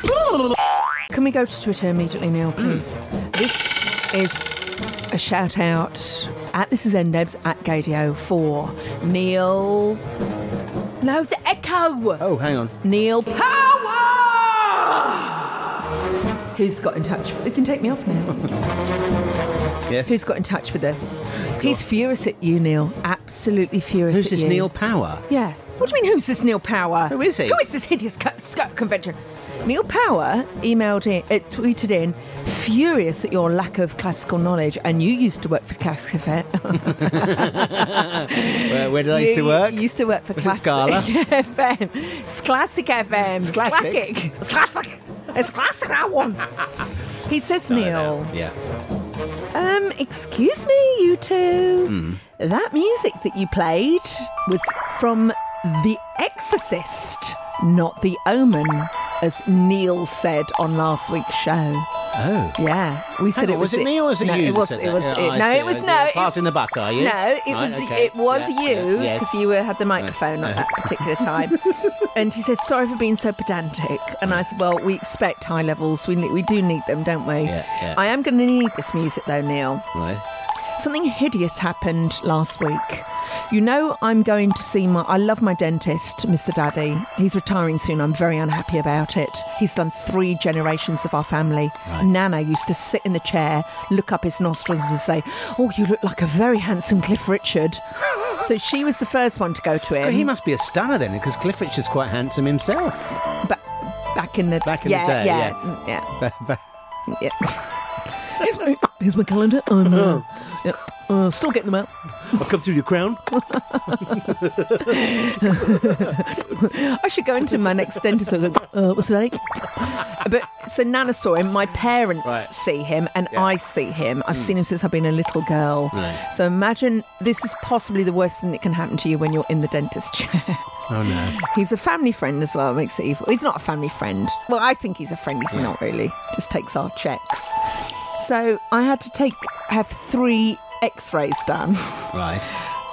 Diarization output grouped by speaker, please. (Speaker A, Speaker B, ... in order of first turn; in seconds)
Speaker A: 1.1-10.0, 11.0-12.2, 12.8-15.5, 16.5-18.5, 20.1-24.7, 25.3-46.5, 47.3-48.3, 49.5-61.9, 62.6-66.4, 67.0-79.9, 80.8-100.3, 103.4-106.1, 107.1-107.8, 108.3-112.4, 113.3-114.3, 114.8-142.1
Speaker B: 12.2-12.8, 19.9-20.2, 21.6-21.8, 24.1-25.3, 27.1-27.6, 36.8-41.1, 43.4-44.0, 47.5-48.5, 51.9-52.2, 62.1-62.6, 63.3-69.3, 70.0-71.8, 77.5-78.0, 79.9-80.2, 100.0-103.2, 104.7-105.6, 106.2-106.6, 109.9-110.3, 112.3-113.3, 113.9-115.0, 115.5-116.1, 125.9-126.2, 130.9-131.4, 142.1-142.5